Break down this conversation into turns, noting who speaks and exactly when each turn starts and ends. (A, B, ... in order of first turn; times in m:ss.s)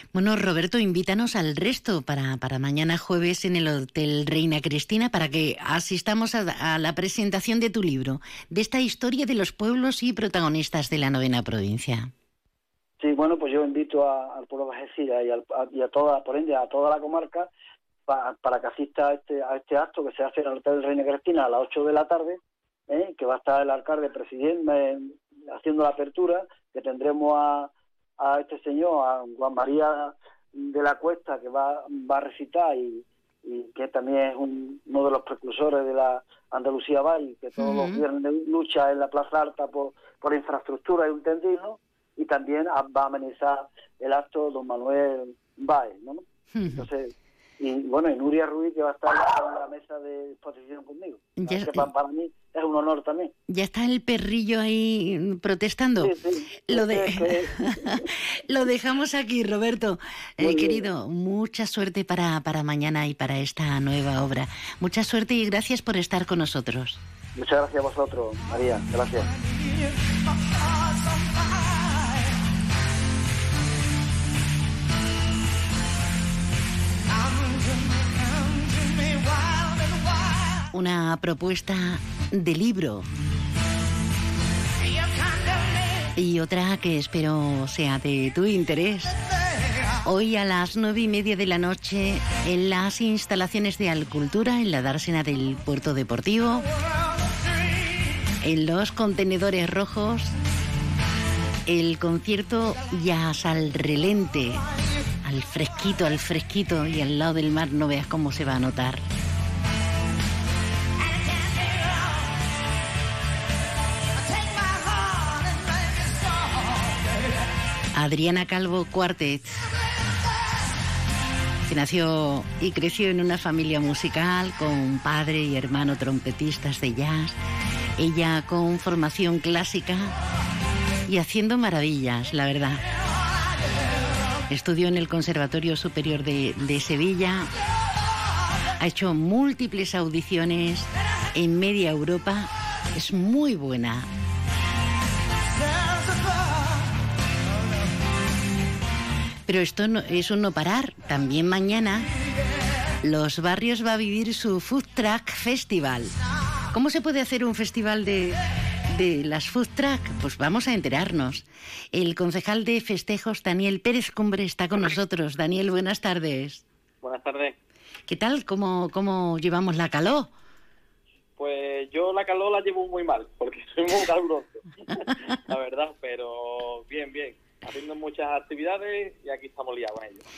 0:00.1-0:12.1 A
0:13.0-0:17.5 B
0:18.1-0:53.3 B
0:37.6-0:38.0 A
0:46.5-0:46.9 A
0:51.4-0:51.9 A
0:53.5-0:56.2 A
0:56.0-0:58.0 B
0:56.7-1:07.0 A
1:00.4-1:00.9 B
1:07.4-1:09.4 B
1:20.7-1:23.1 A
1:26.1-1:29.2 A
1:30.0-1:36.7 A
1:38.4-1:40.4 A
1:41.7-1:44.7 A
1:45.2-1:49.0 A
1:57.9-1:59.6 A
2:01.7-2:07.4 A
2:08.0-2:10.1 A
2:11.1-2:12.8 A
2:14.5-2:17.5 A
2:18.8-2:24.1 A
2:29.5-2:32.1 A
2:33.0-2:36.1 A
2:36.7-2:46.6 A
2:47.0-2:47.6 C
2:48.1-2:50.3 A
2:51.4-2:54.6 C
2:55.5-3:00.2 C